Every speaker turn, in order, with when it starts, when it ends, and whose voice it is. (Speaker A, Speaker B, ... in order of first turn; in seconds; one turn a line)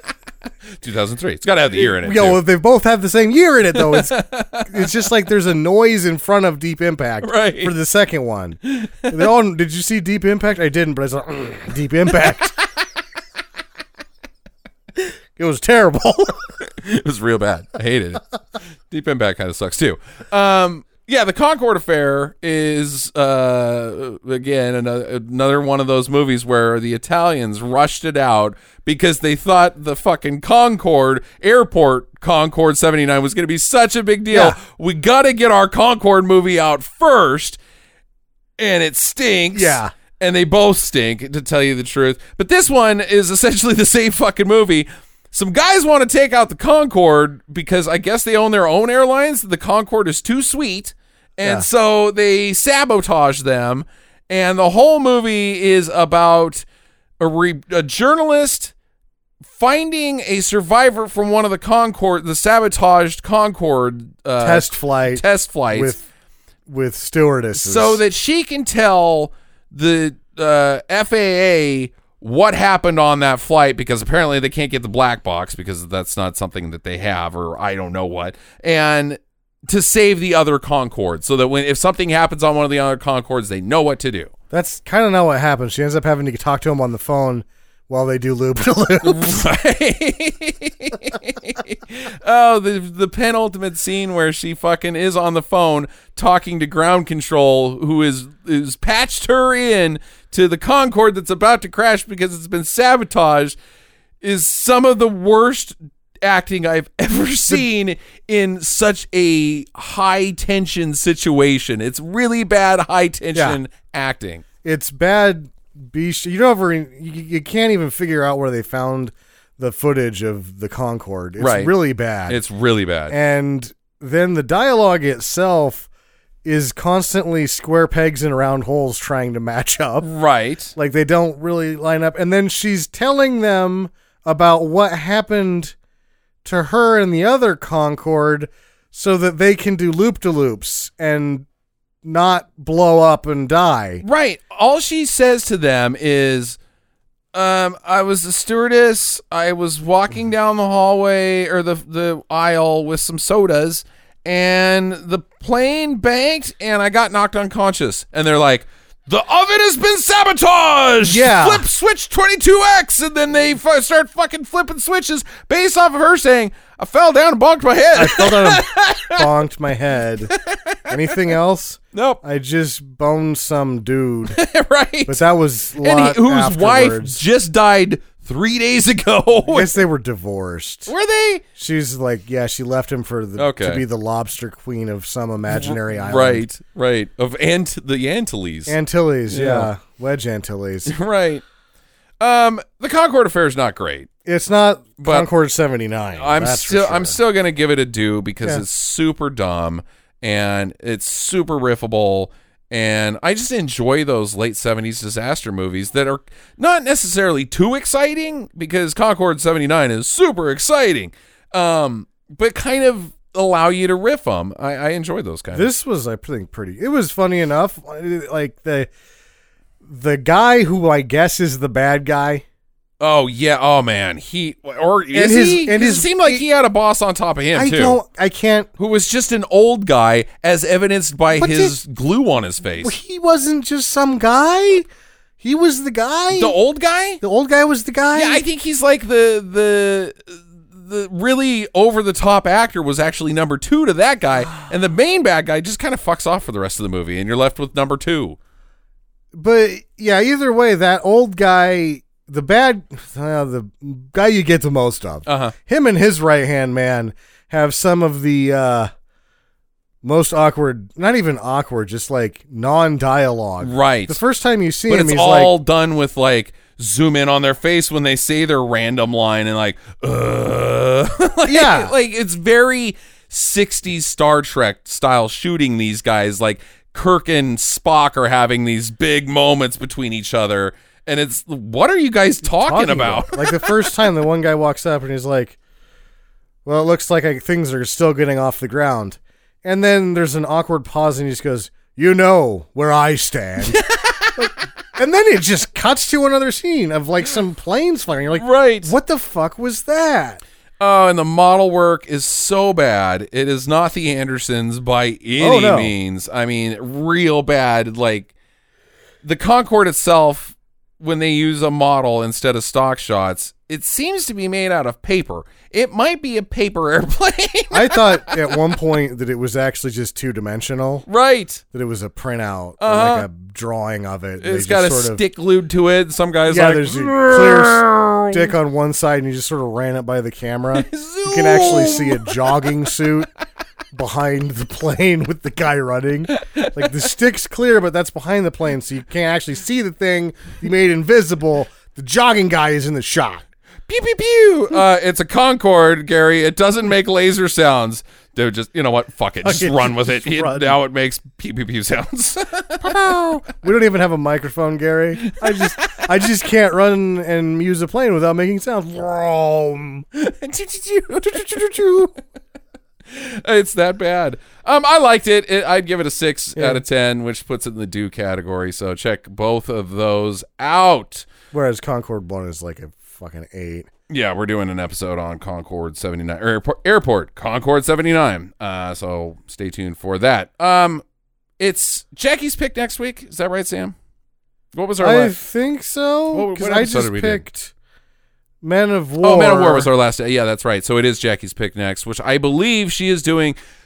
Speaker A: 0.8-2.4
Speaker B: 1.7-12.6
Speaker A: 3.8-4.9
Speaker A: 7.2-7.7
Speaker A: 8.7-9.2
Speaker B: 15.4-16.5
Speaker A: 16.6-18.2
Speaker A: 18.9-37.6
Speaker B: 34.3-34.6
Speaker A: 38.6-56.7
Speaker B: 39.5-39.9
Speaker B: 51.4-51.7
Speaker A: 57.2-58.7
Speaker A: 59.5-66.0
Speaker B: 64.4-66.0
Speaker B: 66.7-68.0
Speaker A: 67.6-84.3
Speaker B: 84.5-89.5
Speaker A: 89.0-103.6
Speaker A: 104.2-114.4
Speaker B: 113.3-113.6
Speaker B: 114.6-122.4
Speaker A: 121.4-121.7
Speaker A: 122.3-123.2
Speaker B: 123.1-125.9
Speaker B: 126.5-130.1
Speaker A: 130.0-130.7
Speaker B: 130.8-135.8
Speaker B: 136.4-141.5
Speaker B: 142.0-144.0
Speaker A: 144.0-146.6
Speaker A: 147.3-169.2
Speaker B: 161.1-161.7
Speaker B: 167.9-170.3
Speaker A: 170.3-170.8
Speaker B: 170.9-174.4
Speaker A: 171.9-172.2
Speaker A: 174.3-175.2
Speaker B: 175.1-177.2
Speaker A: 175.8-179.8
Speaker B: 179.5-180.9
Speaker A: 180.9-181.4
Speaker B: 181.6-186.5
Speaker A: 183.4-183.8
Speaker A: 185.5-188.8
Speaker B: 188.7-190.9
Speaker A: 189.3-189.7
Speaker A: 190.9-191.4
Speaker A: 192.2-194.1
Speaker B: 194.3-197.2
Speaker A: 195.0-195.3
Speaker A: 196.2-215.7
Speaker B: 215.5-218.9
Speaker B: 219.8-222.4
Speaker A: 223.0-228.0
Speaker B: 225.1-226.4
Speaker B: 227.5-228.7
Speaker A: 228.8-232.9
Speaker B: 231.3-231.8
Speaker B: 232.8-234.8
Speaker B: 235.4-236.6
Speaker A: 236.3-237.2
Speaker B: 237.2-238.4
Speaker A: 238.1-248.4
Speaker B: 249.3-258.9
Speaker A: 255.3-255.6
Speaker B: 260.0-265.6
Speaker A: 263.6-264.2
Speaker A: 264.9-283.8
Speaker B: 271.5-271.9
Speaker B: 282.4-285.6
Speaker B: 286.6-293.8
Speaker A: 293.7-294.5
Speaker B: 294.4-300.4
Speaker A: 298.4-298.9
Speaker A: 300.8-308.3
Speaker B: 305.4-305.9
Speaker A: 309.2-318.5
Speaker B: 317.7-321.1
Speaker A: 321.1-321.6
Speaker B: 321.7-325.2
Speaker A: 322.8-323.3
Speaker A: 324.4-328.4
Speaker B: 326.5-333.3
Speaker A: 330.7-332.7
Speaker B: 333.9-343.4
Speaker A: 336.3-336.9
Speaker A: 343.9-353.0
Speaker B: 349.4-350.8
Speaker B: 352.8-360.1
Speaker A: 355.2-356.1
Speaker A: 360.1-362.1
Speaker A: 363.1-371.3
Speaker B: 366.6-366.8
Speaker B: 371.5-373.9
Speaker A: 374.1-381.0
Speaker A: 381.6-383.9
Speaker A: 384.7-385.4
Speaker B: 385.0-387.7
Speaker A: 386.3-387.4
Speaker B: 388.6-389.9
Speaker A: 389.2-393.6